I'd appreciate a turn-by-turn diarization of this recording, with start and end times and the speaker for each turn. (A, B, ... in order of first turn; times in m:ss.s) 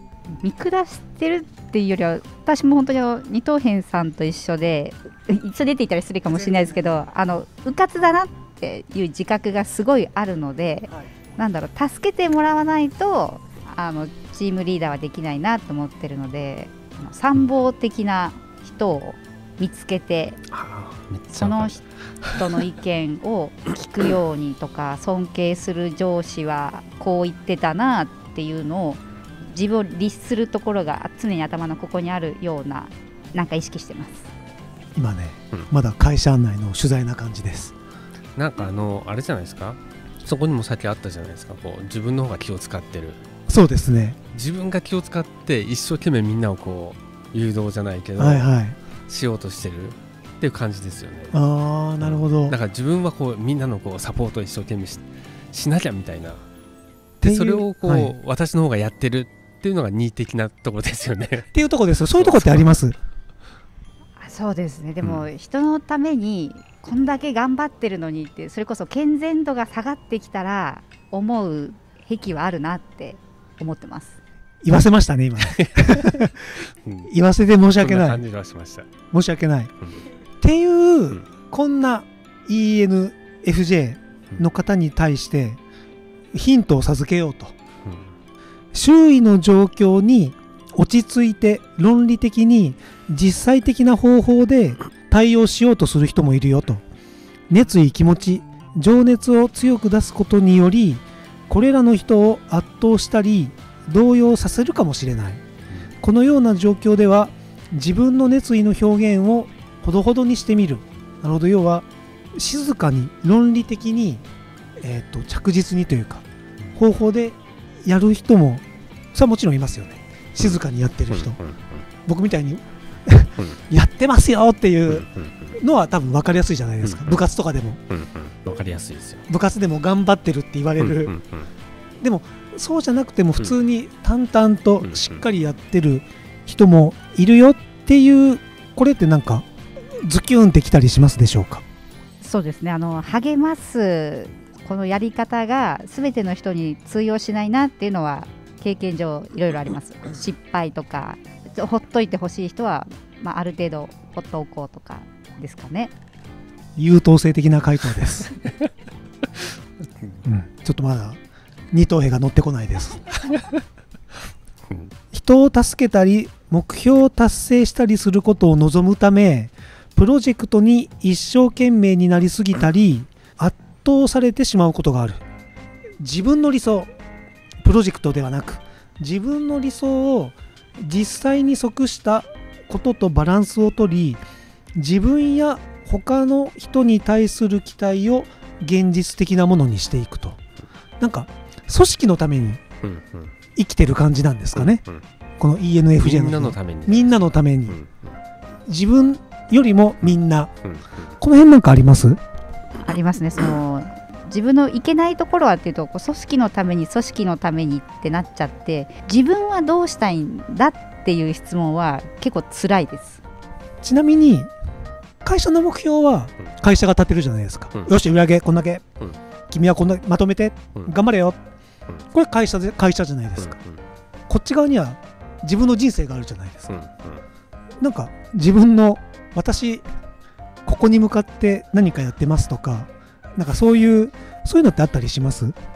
0:00.4-0:20.4 A
0:06.3-0:07.0 B
0:10.9-0:11.4 B
0:20.5-0:22.4 C
0:21.3-0:21.8 A
0:22.3-0:34.3 A
0:35.0-0:37.7 B
0:38.4-0:43.2 C
0:43.5-0:44.2 B
0:44.3-0:48.5 C
0:48.2-0:48.8 B
0:49.1-0:51.4 C
0:51.3-0:52.6 B
0:52.0-0:56.4 C
0:57.2-0:58.1 B
0:57.2-1:01.5 C
1:01.5-1:03.0 B
1:02.1-1:02.7 C
1:04.2-1:14.2 A
1:14.6-1:16.4 B
1:15.5-1:16.1 C
1:16.8-1:17.1 C
1:17.1-1:18.2 B
1:17.8-1:18.9 C
1:19.1-1:19.7 B
1:20.4-1:25.6 B
1:26.3-1:27.5 B
1:27.8-1:28.1 C
1:28.7-1:36.8 B
1:37.5-1:45.4 B
1:46.0-1:54.2 B
1:54.8-2:01.4 B
2:01.1-2:01.8 C
2:02.1-2:07.8 B
2:04.9-2:05.3 C
2:07.9-2:09.2 C
2:09.3-2:11.2 B
2:10.8-2:11.5 C
2:12.0-2:19.5 B
2:14.8-2:15.2 C
2:20.0-2:21.6 B
2:22.2-2:35.9 A
2:36.8-2:38.3 B
2:40.2-2:41.2 B
2:41.7-2:43.0 B
2:45.1-2:55.2 B
2:56.0-2:56.9 B
2:57.6-3:04.2 B
3:04.8-3:10.4 B
3:11.0-3:12.6 B
3:12.8-3:13.3 C
3:13.6-3:14.8 B
3:14.6-3:15.0 C
3:15.4-3:17.8 B
3:16.0-3:18.2 C
3:18.7-3:20.5 B
3:21.2-3:22.2 B
3:22.8-3:33.2 A
3:33.8-3:34.5 B
3:35.2-3:38.8 B
3:39.5-3:41.4 B
3:42.1-3:43.6 B
3:43.4-3:43.8 C
3:44.3-3:46.8 B
3:46.7-3:47.2 C
3:47.8-3:49.8 B
3:50.6-3:55.6 B